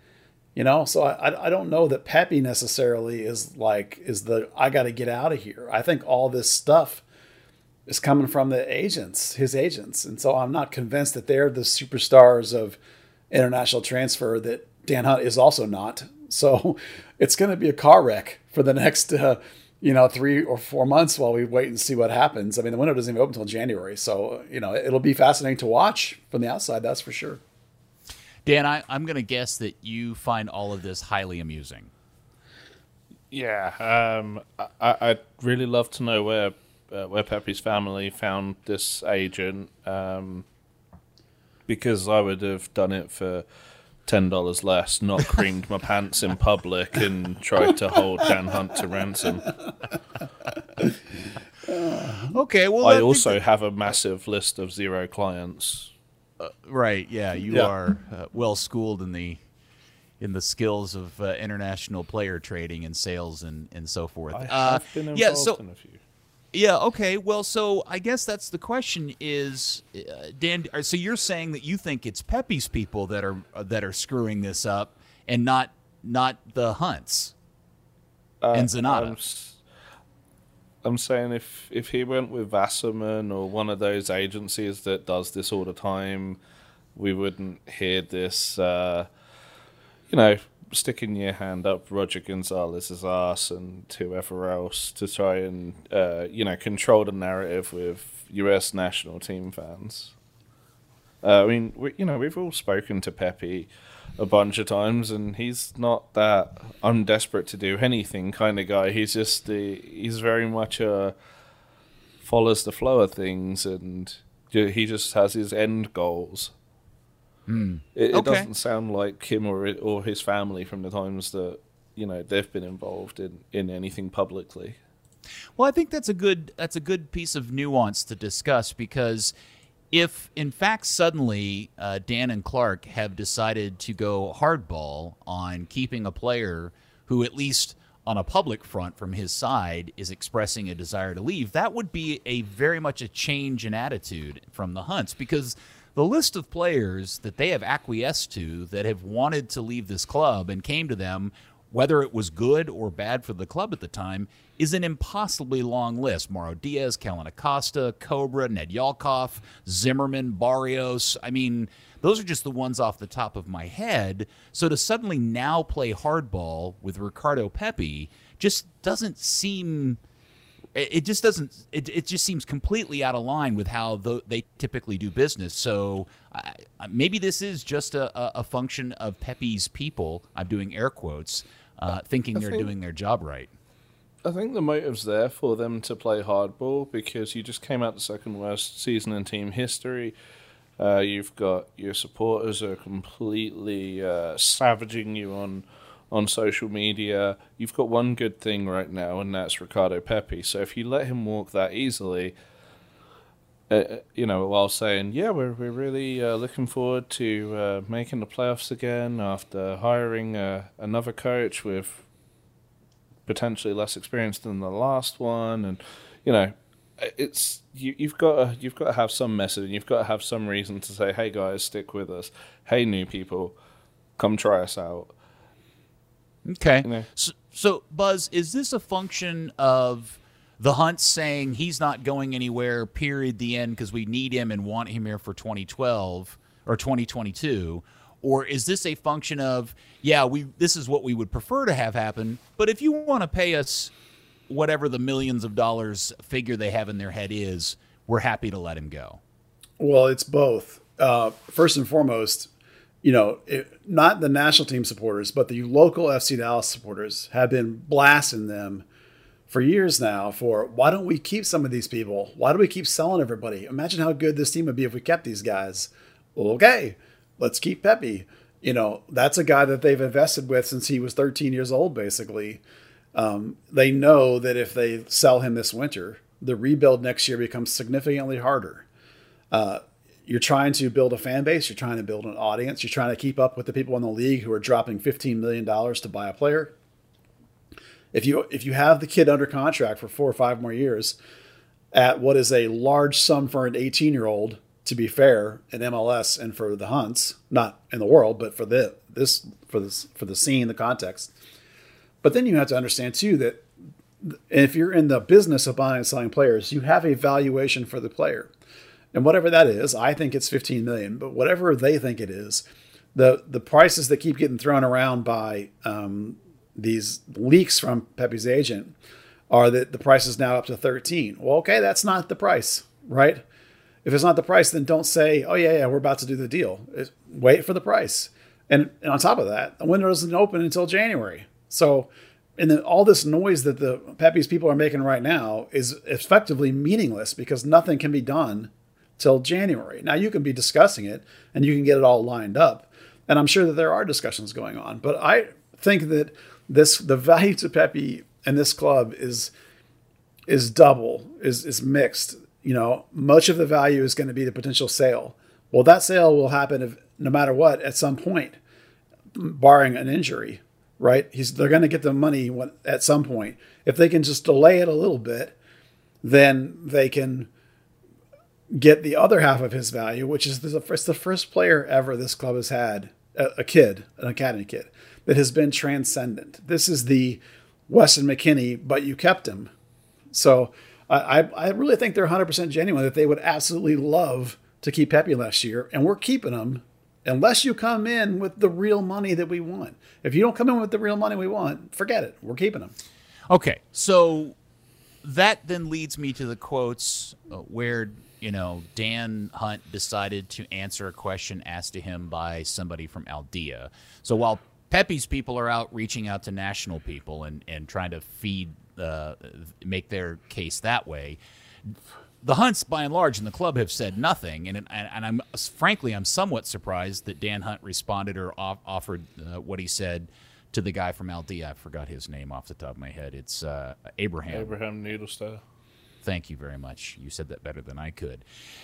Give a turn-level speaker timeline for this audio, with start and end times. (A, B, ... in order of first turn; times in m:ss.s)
0:00.5-0:07.0 A
0:07.9-0:12.8 A
0:13.3-0:27.4 A
0:28.4-0:31.9 B
0:33.3-0:40.4 C
0:41.7-0:43.4 C
0:44.0-0:49.5 C
0:51.7-0:52.2 A
0:52.3-0:53.4 B
0:52.8-0:55.9 C
0:56.4-0:59.4 B
1:00.2-1:05.6 B
1:04.3-1:06.0 C
1:06.5-1:17.3 B
1:18.4-1:19.6 C
1:18.5-1:19.2 B
1:20.8-1:26.4 C
1:26.9-1:29.1 C
1:30.1-1:40.1 C
1:41.2-1:51.1 C
1:52.2-1:56.5 C
1:57.5-1:58.5 B
1:57.9-2:04.8 C
2:05.6-2:09.3 B
2:09.9-2:50.0 B
2:50.7-3:03.5 B
3:02.4-3:02.7 C
3:04.2-3:10.1 C
3:10.8-3:22.3 C
3:23.7-3:32.0 C
3:33.3-3:43.5 C
3:44.2-3:45.1 C
3:46.4-4:03.9 B
4:04.5-4:09.2 B
4:09.8-4:12.5 A
4:13.0-4:18.8 A
4:19.5-4:32.6 A
4:33.1-4:38.8 A
4:39.5-4:46.7 A
4:48.1-4:51.2 A
4:51.9-5:01.3 A
5:02.2-5:03.6 A
5:04.2-5:08.5 A
5:09.1-5:18.9 A
5:19.5-5:23.4 A
5:24.0-5:49.5 A
5:50.5-5:58.6 A
5:59.3-6:05.5 A
6:06.2-6:07.5 A
6:08.7-6:19.7 A
6:20.3-6:32.9 A
6:33.5-6:34.6 B
6:35.2-6:51.4 B
6:51.9-7:04.7 B
7:04.5-7:05.6 C
7:06.2-7:08.4 B